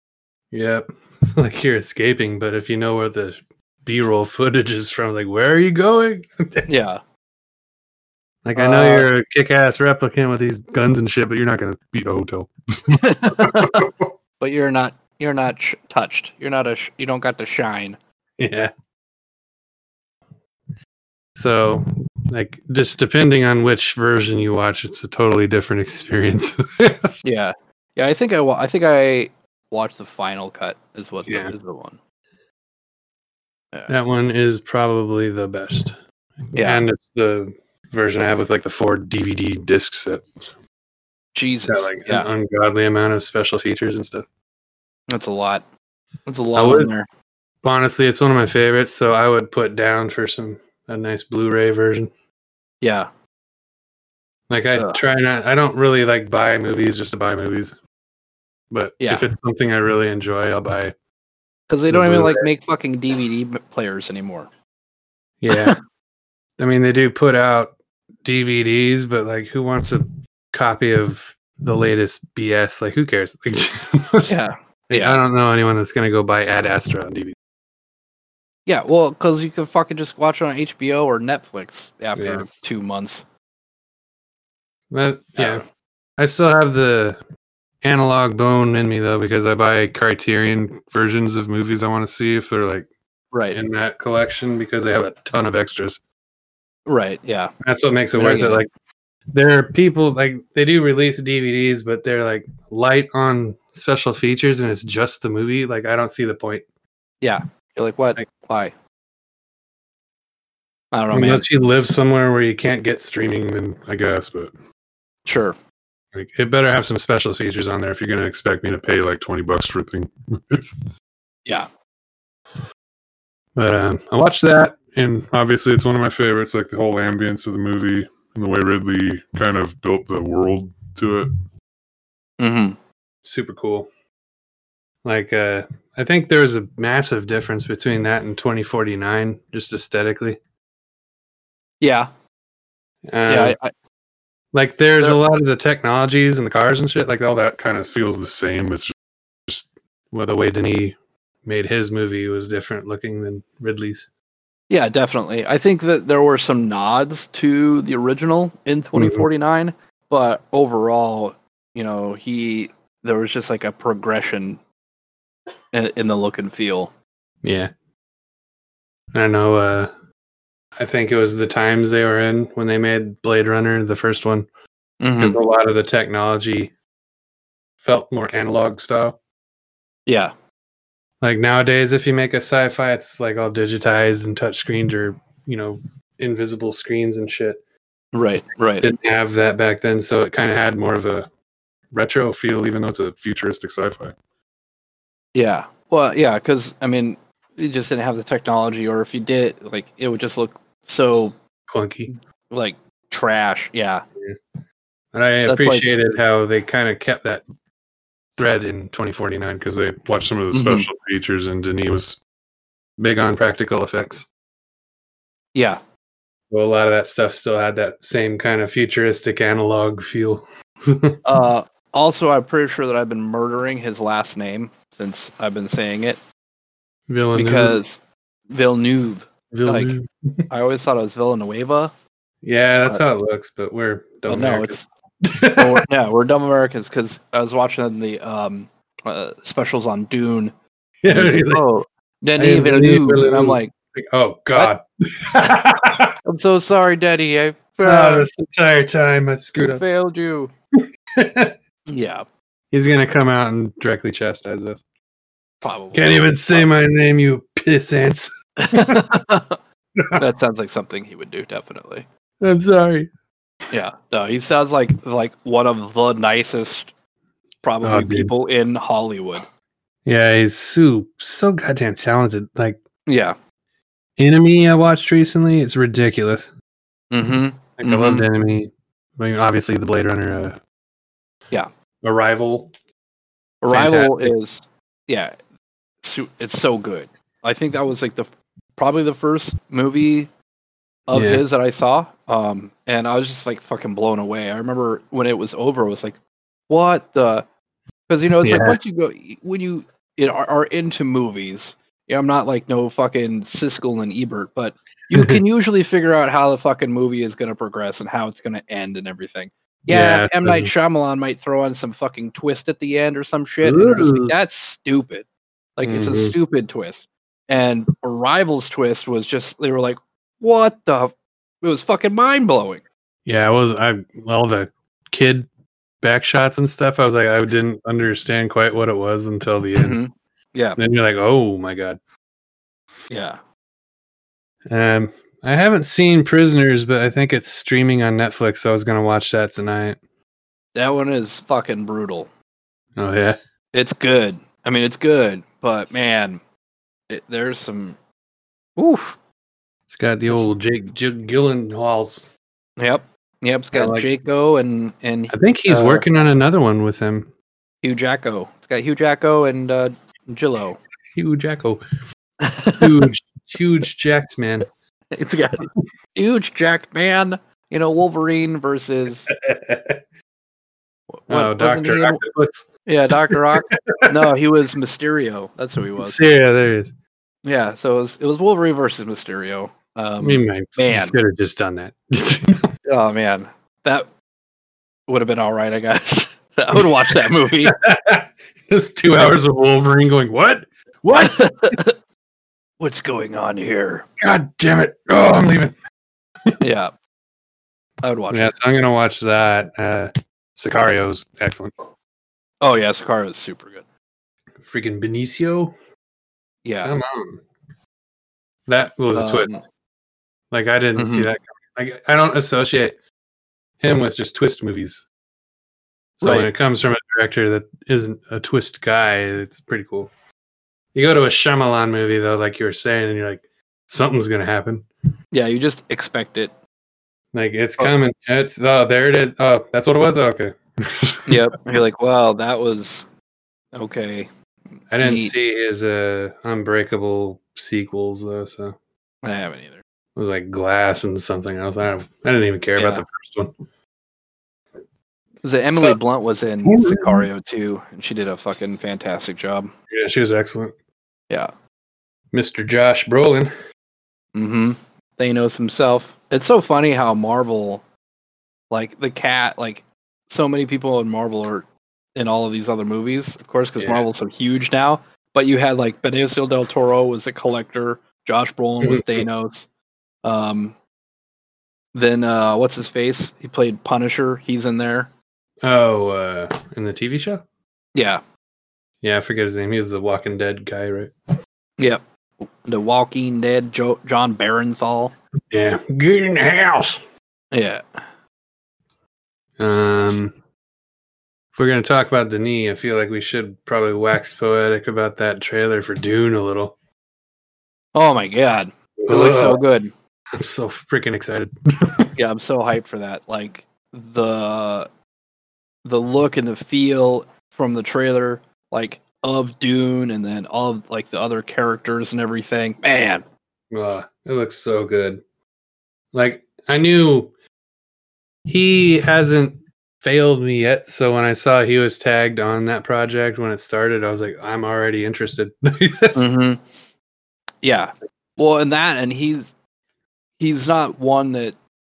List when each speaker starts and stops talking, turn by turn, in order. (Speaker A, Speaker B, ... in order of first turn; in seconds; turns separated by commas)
Speaker A: 0.5-6.7, Speaker B: 6.7-7.0, Speaker A: 8.4-14.1, Speaker B: 8.5-9.1, Speaker B: 13.0-13.9, Speaker B: 14.4-18.0, Speaker A: 18.4-18.7, Speaker A: 21.3-27.2, Speaker B: 27.2-32.0, Speaker A: 31.2-31.5, Speaker A: 33.9-36.0, Speaker A: 36.5-40.5, Speaker B: 36.5-36.9, Speaker B: 41.3-42.3, Speaker A: 41.7-44.2, Speaker B: 45.1-45.6, Speaker B: 46.3-47.1, Speaker A: 46.5-46.9, Speaker A: 47.6-52.1, Speaker B: 52.8-53.1, Speaker A: 54.5-57.8, Speaker B: 54.7-55.0, Speaker A: 58.7-60.9, Speaker B: 61.7-64.5, Speaker A: 61.9-62.5, Speaker A: 65.4-65.8, Speaker B: 65.5-65.8, Speaker A: 66.6-74.3, Speaker B: 74.2-75.2, Speaker A: 74.9-77.3, Speaker B: 78.7-83.2, Speaker A: 82.2-82.5, Speaker A: 84.9-85.6, Speaker B: 85.4-85.6, Speaker A: 86.2-87.2, Speaker A: 87.8-92.9, Speaker B: 93.3-93.6, Speaker A: 93.5-96.0, Speaker B: 96.8-97.5, Speaker A: 97.6-98.7, Speaker B: 98.1-98.6, Speaker A: 99.3-106.6, Speaker B: 107.2-108.7, Speaker B: 110.9-111.5, Speaker A: 111.1-114.5, Speaker B: 115.2-115.5, Speaker A: 116.1-120.8, Speaker A: 123.5-131.3, Speaker B: 132.4-132.8, Speaker A: 133.2-133.9, Speaker A: 135.0-140.4, Speaker B: 141.8-142.1, Speaker A: 143.1-143.6, Speaker B: 143.3-143.7, Speaker A: 144.5-148.9, Speaker A: 149.5-154.1, Speaker B: 154.7-164.6, Speaker A: 158.9-159.2, Speaker B: 165.7-166.9, Speaker A: 167.4-167.7, Speaker A: 169.1-169.9, Speaker A: 170.8-174.5, Speaker B: 175.0-175.4, Speaker A: 175.2-176.7, Speaker A: 177.8-179.2, Speaker B: 180.1-180.3, Speaker A: 181.2-187.6, Speaker B: 188.1-188.9, Speaker A: 188.8-191.3, Speaker A: 191.9-194.2, Speaker B: 195.3-201.3, Speaker A: 201.7-202.1, Speaker B: 202.1-204.1, Speaker A: 205.1-207.4, Speaker B: 205.5-206.0, Speaker A: 208.3-212.2, Speaker B: 210.5-210.9, Speaker A: 213.0-214.3, Speaker B: 215.5-215.8, Speaker A: 216.5-221.2, Speaker B: 221.2-226.2, Speaker A: 227.1-227.8, Speaker B: 227.3-230.0, Speaker A: 229.5-230.4, Speaker B: 230.5-231.9, Speaker A: 232.4-235.8, Speaker B: 234.3-234.8, Speaker B: 235.6-240.5, Speaker A: 241.0-241.6, Speaker B: 241.1-243.7, Speaker A: 242.3-246.2, Speaker B: 246.2-248.3, Speaker A: 247.8-249.8, Speaker B: 249.6-250.5, Speaker A: 250.8-251.5, Speaker B: 251.9-252.2, Speaker A: 252.7-254.8, Speaker B: 255.6-256.7, Speaker A: 255.9-259.0, Speaker B: 258.6-259.6, Speaker B: 260.1-262.1, Speaker A: 262.4-263.1, Speaker B: 263.7-266.9, Speaker B: 267.6-269.4, Speaker A: 267.8-268.3, Speaker A: 270.0-272.8, Speaker B: 273.1-273.4, Speaker A: 274.2-276.5, Speaker B: 277.1-278.3, Speaker A: 277.8-280.6, Speaker A: 282.0-282.7, Speaker B: 283.6-285.3, Speaker A: 283.7-284.3, Speaker B: 286.0-290.3, Speaker B: 291.1-296.2, Speaker A: 291.1-291.4, Speaker B: 296.7-297.4, Speaker B: 298.1-315.2, Speaker A: 298.4-298.8, Speaker A: 305.1-305.4, Speaker A: 309.9-310.7, Speaker A: 313.6-314.3, Speaker B: 315.8-322.8, Speaker A: 315.8-316.4, Speaker A: 323.2-325.5, Speaker A: 326.0-330.0, Speaker B: 329.8-330.8, Speaker A: 330.8-332.0, Speaker B: 333.1-333.4, Speaker A: 334.7-340.0, Speaker B: 340.7-342.3, Speaker A: 343.0-343.4, Speaker B: 343.7-346.4, Speaker B: 347.1-348.0, Speaker B: 348.8-349.2, Speaker A: 349.9-352.3, Speaker B: 352.8-356.1, Speaker A: 353.7-354.1, Speaker A: 355.3-357.3, Speaker B: 357.8-360.8, Speaker A: 361.1-361.8, Speaker B: 362.4-363.1, Speaker A: 362.8-364.7, Speaker B: 365.1-369.3, Speaker A: 369.3-370.0, Speaker B: 371.1-372.2, Speaker A: 371.3-372.7, Speaker B: 372.9-376.2, Speaker A: 373.3-374.1, Speaker A: 376.0-376.9, Speaker B: 377.4-381.1, Speaker A: 380.2-382.7, Speaker B: 382.8-384.1, Speaker B: 385.1-387.8, Speaker A: 387.6-391.8, Speaker B: 391.1-391.9, Speaker B: 392.8-394.1, Speaker A: 394.2-395.7, Speaker B: 396.6-396.9, Speaker B: 398.0-398.5, Speaker A: 398.3-401.7, Speaker B: 402.6-403.9, Speaker A: 404.6-405.7, Speaker B: 406.6-406.9, Speaker A: 406.8-407.4, Speaker A: 408.7-409.6, Speaker B: 409.1-409.6, Speaker A: 410.5-412.9, Speaker B: 410.9-411.3, Speaker A: 413.8-415.1, Speaker A: 416.2-420.1, Speaker B: 416.2-416.5, Speaker A: 420.9-424.9, Speaker B: 425.3-426.5, Speaker A: 427.3-431.4, Speaker B: 431.3-433.1, Speaker B: 433.7-434.3, Speaker A: 434.9-438.8, Speaker B: 435.0-435.3, Speaker B: 439.2-439.8, Speaker A: 440.1-443.5, Speaker B: 442.8-443.0, Speaker B: 445.4-449.7, Speaker A: 446.6-447.3, Speaker A: 449.9-450.7, Speaker A: 452.3-453.5, Speaker B: 454.3-457.8, Speaker B: 458.7-469.7, Speaker A: 463.8-464.0, Speaker A: 468.8-469.3, Speaker B: 470.2-470.8, Speaker B: 471.9-475.1, Speaker A: 475.6-477.4, Speaker B: 477.9-478.2, Speaker A: 479.0-481.1, Speaker B: 481.8-485.1, Speaker A: 485.5-487.0, Speaker B: 487.5-487.8, Speaker A: 489.6-490.3, Speaker A: 491.5-496.7, Speaker B: 497.9-499.9, Speaker A: 499.0-499.6, Speaker A: 500.3-502.1, Speaker B: 502.1-504.9, Speaker B: 505.8-513.2, Speaker A: 513.7-515.2, Speaker A: 516.1-517.3, Speaker A: 518.5-526.2, Speaker B: 526.1-526.6, Speaker B: 527.6-529.5, Speaker B: 530.4-531.5